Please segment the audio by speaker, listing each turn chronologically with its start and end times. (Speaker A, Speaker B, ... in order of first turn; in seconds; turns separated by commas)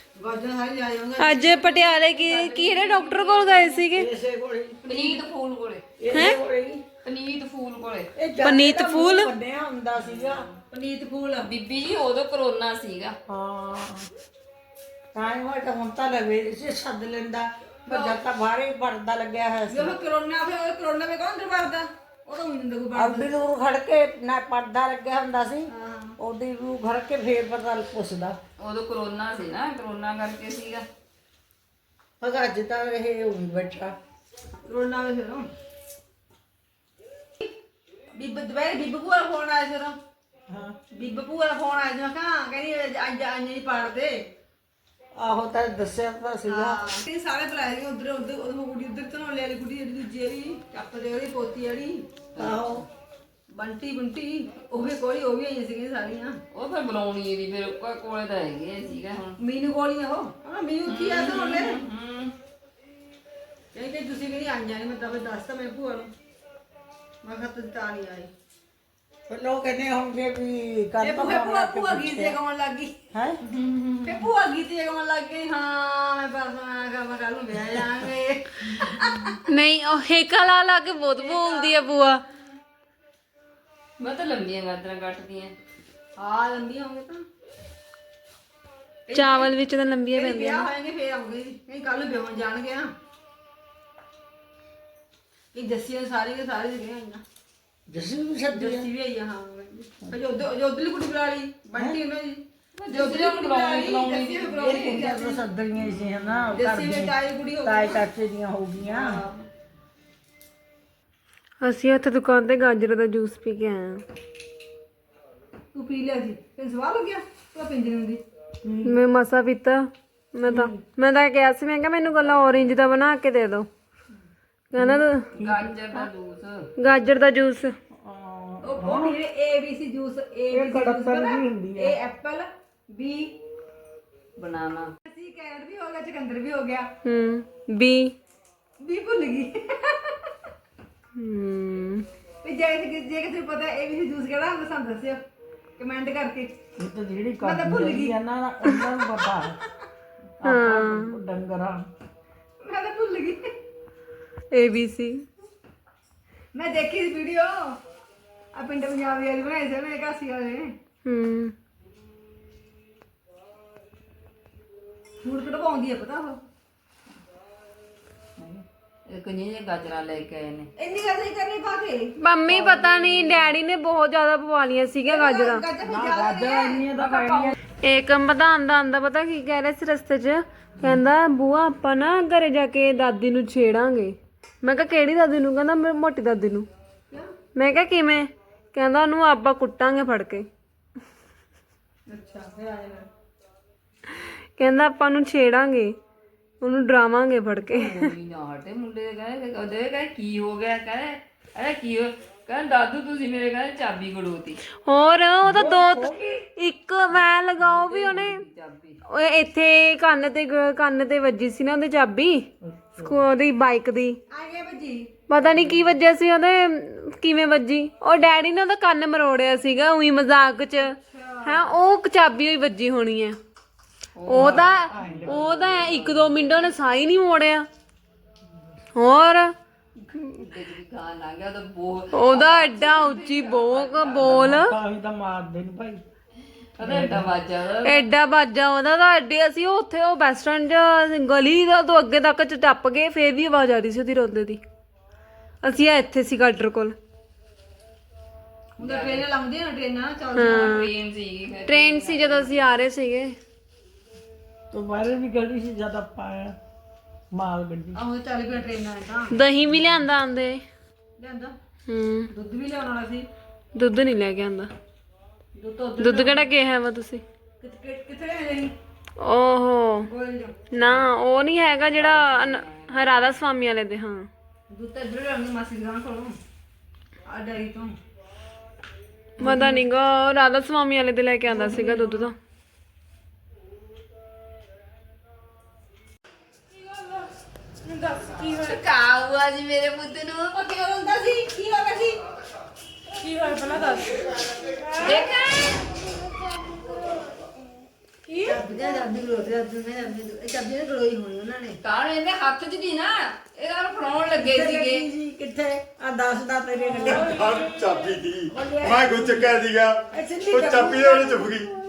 Speaker A: 0.1-1.9, Speaker B: 1.2-4.1, Speaker C: 2.1-3.7, Speaker D: 3.9-4.8, Speaker A: 4.8-5.2, Speaker C: 4.8-5.8, Speaker D: 6.0-6.8, Speaker C: 7.0-8.1, Speaker D: 8.2-10.5, Speaker B: 8.4-9.3, Speaker C: 10.0-10.5, Speaker A: 10.7-11.5, Speaker C: 11.4-13.2, Speaker D: 13.3-14.1, Speaker D: 15.1-19.9, Speaker A: 17.9-18.2, Speaker A: 19.7-23.3, Speaker D: 22.9-28.4, Speaker A: 25.7-26.1, Speaker C: 28.6-30.8, Speaker D: 32.2-33.9, Speaker A: 34.6-35.5, Speaker A: 38.1-40.0, Speaker D: 40.5-40.8, Speaker A: 40.9-44.2, Speaker D: 45.1-46.8, Speaker A: 46.5-52.1, Speaker C: 52.3-52.8, Speaker D: 52.4-52.8, Speaker A: 53.5-56.4, Speaker C: 56.5-59.4, Speaker A: 59.4-61.8, Speaker C: 60.9-62.3, Speaker A: 63.7-66.1, Speaker A: 67.2-68.3, Speaker D: 69.3-72.4, Speaker A: 71.0-73.0, Speaker D: 73.1-73.4, Speaker A: 73.5-79.4, Speaker B: 79.5-82.2, Speaker A: 81.2-81.8, Speaker C: 84.0-85.5, Speaker A: 86.2-87.2, Speaker A: 89.1-89.5, Speaker B: 89.1-90.7, Speaker A: 90.1-92.9, Speaker A: 95.5-97.2, Speaker D: 97.9-98.9, Speaker A: 98.5-105.4, Speaker C: 102.8-105.0, Speaker D: 104.4-109.2, Speaker A: 106.5-108.0, Speaker A: 108.8-109.4, Speaker B: 111.6-114.0, Speaker A: 115.7-118.2, Speaker D: 118.6-118.9, Speaker B: 118.8-123.7, Speaker D: 120.5-120.8, Speaker B: 124.7-125.3, Speaker D: 124.8-125.7, Speaker C: 125.4-126.7, Speaker B: 126.8-127.7, Speaker D: 127.9-129.2, Speaker A: 128.6-133.3, Speaker D: 130.5-132.0, Speaker C: 134.4-134.9, Speaker A: 135.0-136.9, Speaker B: 137.0-138.1, Speaker A: 138.8-140.3, Speaker B: 141.1-142.1, Speaker A: 142.4-145.2, Speaker A: 145.8-146.5, Speaker D: 146.8-149.6, Speaker A: 147.4-148.1, Speaker D: 150.4-151.8, Speaker B: 150.4-151.2, Speaker A: 152.6-153.5, Speaker B: 154.5-155.2, Speaker A: 156.5-157.8, Speaker A: 158.5-160.7, Speaker B: 161.0-161.5, Speaker A: 165.2-166.4, Speaker C: 168.4-170.7, Speaker A: 170.8-172.1, Speaker B: 172.2-175.6, Speaker C: 172.5-173.5, Speaker A: 175.1-177.5, Speaker D: 175.8-177.6, Speaker B: 177.8-186.7, Speaker B: 187.5-190.5, Speaker A: 192.1-193.1, Speaker B: 194.2-196.0, Speaker B: 196.6-198.1, Speaker C: 197.7-204.6, Speaker B: 204.8-208.4, Speaker D: 205.4-206.4, Speaker C: 207.6-209.0, Speaker B: 209.1-214.2, Speaker D: 212.6-213.2, Speaker A: 214.3-215.1, Speaker B: 215.3-223.4, Speaker C: 215.4-215.9, Speaker A: 221.0-221.6, Speaker C: 224.2-224.7, Speaker B: 224.3-227.7, Speaker D: 224.3-225.9, Speaker C: 225.6-226.5, Speaker B: 228.9-229.5, Speaker C: 230.0-234.6, Speaker B: 232.1-234.7, Speaker D: 234.2-236.0, Speaker C: 236.8-238.1, Speaker D: 236.8-237.3, Speaker B: 237.8-244.6, Speaker B: 245.6-246.9, Speaker A: 248.8-250.8, Speaker C: 248.8-249.3, Speaker B: 250.3-250.9, Speaker C: 250.3-252.6, Speaker B: 251.7-253.3, Speaker D: 254.7-256.6, Speaker D: 257.3-258.0, Speaker A: 257.9-259.3, Speaker B: 259.3-260.6, Speaker A: 261.2-261.6, Speaker B: 261.9-262.3, Speaker A: 262.3-263.3, Speaker B: 263.7-264.7, Speaker A: 265.6-266.4, Speaker B: 266.0-267.2, Speaker A: 267.6-268.7, Speaker B: 269.2-270.1, Speaker A: 270.1-270.6, Speaker B: 270.7-274.3, Speaker C: 271.9-273.3, Speaker A: 274.7-276.4, Speaker A: 277.2-277.9, Speaker A: 279.4-279.8, Speaker B: 279.4-282.3, Speaker A: 281.5-282.3, Speaker C: 288.4-290.5, Speaker A: 290.5-292.2, Speaker A: 293.3-294.1, Speaker C: 295.0-295.8, Speaker A: 298.4-301.8, Speaker C: 301.8-305.1, Speaker D: 304.4-307.4, Speaker E: 307.0-311.7, Speaker D: 308.5-309.5, Speaker D: 310.1-311.6